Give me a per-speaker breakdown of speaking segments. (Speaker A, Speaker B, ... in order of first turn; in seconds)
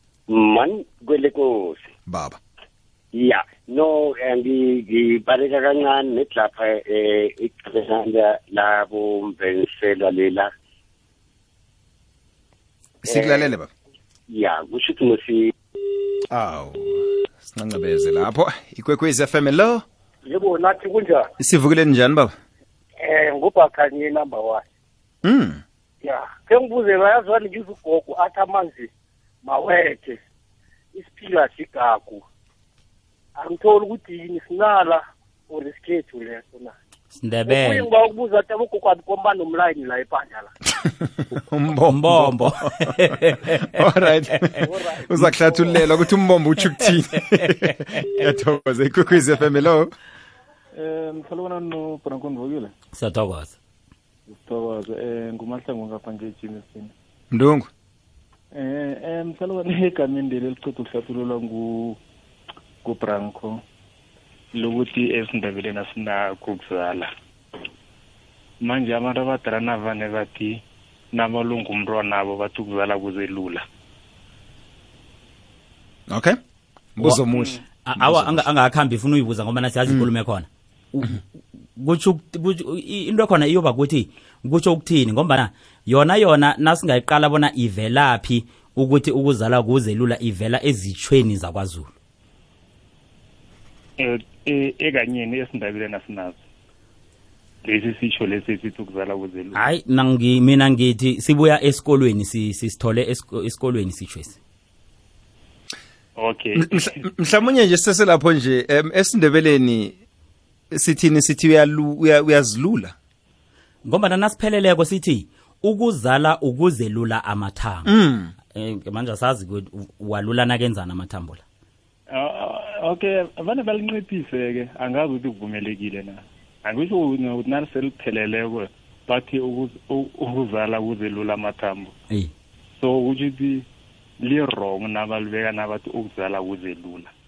Speaker A: 0.3-1.9, 3.1-10.5, 13.1-13.5, 14.3-15.5
Speaker B: 2.1-2.4, 13.0-13.7, 16.3-19.8, 21.4-22.4, 25.2-25.6, 40.8-42.9, 43.6-49.9, 57.3-57.7, 76.1-76.4, 77.0-78.5, 106.6-110.0, 110.7-113.0, 117.9-118.3
Speaker C: 20.2-21.3, 23.0-24.6, 26.0-28.9, 29.4-30.2, 30.9-32.2, 33.4-36.7, 37.5-40.5, 44.6-45.7
Speaker D: 37.2-37.9, 41.9-43.8, 52.9-53.6, 77.9-81.2, 81.8-91.9, 99.5-104.4, 113.8-117.9, 118.5-121.4
Speaker E: 50.7-52.7, 54.3-56.9, 58.5-62.0, 62.8-63.6, 64.5-67.1, 68.6-70.6, 71.1-73.6, 94.0-96.4, 97.6-99.6, 106.2-107.0, 122.1-131.9, 132.8-133.7, 134.2-137.1